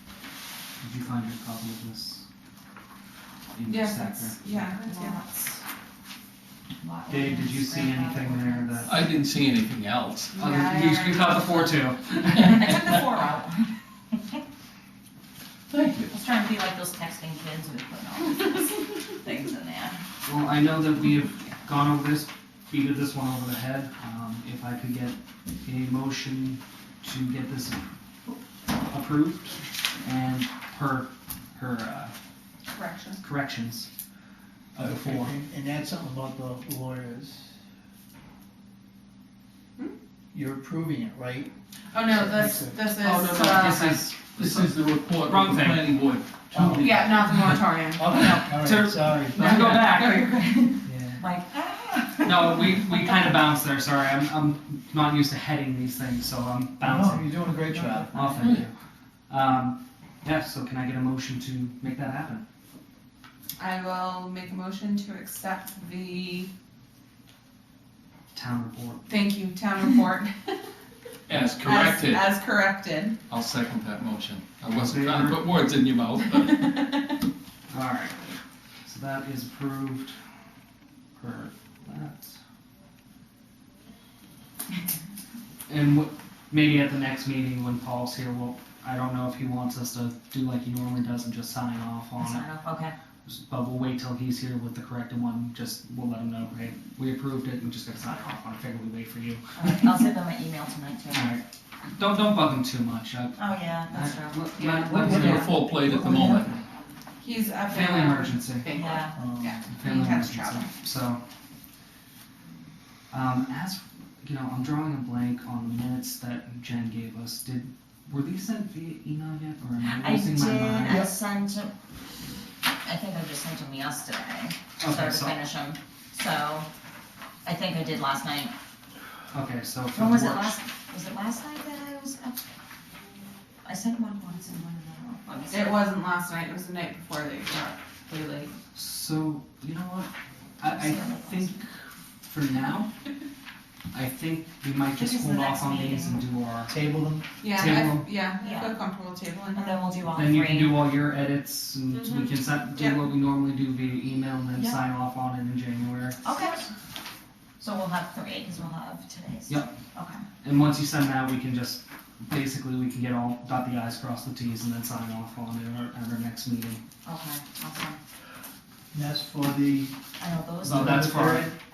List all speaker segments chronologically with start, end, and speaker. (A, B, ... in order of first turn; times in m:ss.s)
0:00.8-0:02.2 A
0:03.5-0:04.6 A
0:03.7-0:05.2 B
0:04.8-0:05.6 C
0:06.8-0:09.0 C
0:07.1-0:09.0 A
0:08.9-0:10.3 D
0:10.3-0:11.4 B
0:10.4-0:13.0 A
0:12.4-0:13.7 C
0:15.7-0:16.1 D
0:16.1-0:20.0 C
0:20.2-0:27.8 A
0:28.9-0:32.1 A
0:32.7-0:33.2 B
0:33.2-0:33.9 A
0:34.7-0:35.3 A
0:34.8-0:37.5 E
0:40.3-0:41.5 E
0:41.9-0:44.0 B
0:42.1-0:42.8 E
0:43.0-0:45.9 A
0:44.4-0:47.0 D
0:46.5-0:47.2 E
0:46.8-0:48.2 B
0:48.0-0:49.5 E
0:48.5-0:50.2 A
0:49.3-0:50.8 B
0:49.9-0:53.1 C
0:50.9-0:51.2 E
0:52.2-0:57.4 A
0:56.8-0:58.3 E
0:57.8-0:58.5 C
0:58.1-0:58.7 A
0:59.3-1:02.4 A
1:03.6-1:06.5 B
1:08.3-1:09.0 A
1:09.1-1:10.7 B
1:11.3-1:12.3 D
1:11.6-1:13.2 B
1:13.3-1:16.8 D
1:14.7-1:15.4 A
1:17.7-1:18.2 A
1:18.8-1:20.2 A
1:21.2-1:22.4 A
1:25.7-1:32.4 A
1:32.2-1:32.9 C
1:33.2-1:40.0 A
1:39.6-1:41.3 C
1:41.1-1:46.6 A
1:43.4-1:45.4 C
1:44.6-1:44.9 B
1:44.9-1:46.5 D
1:45.1-1:45.4 E
1:47.2-1:50.7 B
1:47.7-1:48.7 A
1:48.7-1:49.2 C
1:49.2-1:49.6 E
1:49.7-1:51.2 A
1:53.1-2:01.1 A
1:59.9-2:01.7 C
2:02.8-2:06.7 C
2:04.8-2:05.4 A
2:07.4-2:08.5 C
2:09.3-2:10.6 A
2:09.9-2:12.4 C
2:13.6-2:15.8 C
2:15.5-2:18.5 B
2:18.7-2:22.9 A
2:20.6-2:21.6 C
2:23.9-2:26.7 A
2:24.9-2:26.2 C
2:26.7-2:27.2 E
2:27.4-2:29.8 B
2:27.6-2:28.1 A
2:28.4-2:28.8 C
2:29.6-2:30.9 C
2:30.1-2:36.2 A
2:31.9-2:33.0 B
2:36.2-2:36.6 C
2:37.6-2:40.2 C
2:39.5-2:39.7 A
2:40.4-2:46.8 A
2:47.0-2:48.0 C
2:48.9-2:50.0 E
2:50.2-2:51.2 C
2:50.6-2:51.5 A
2:50.6-2:51.6 E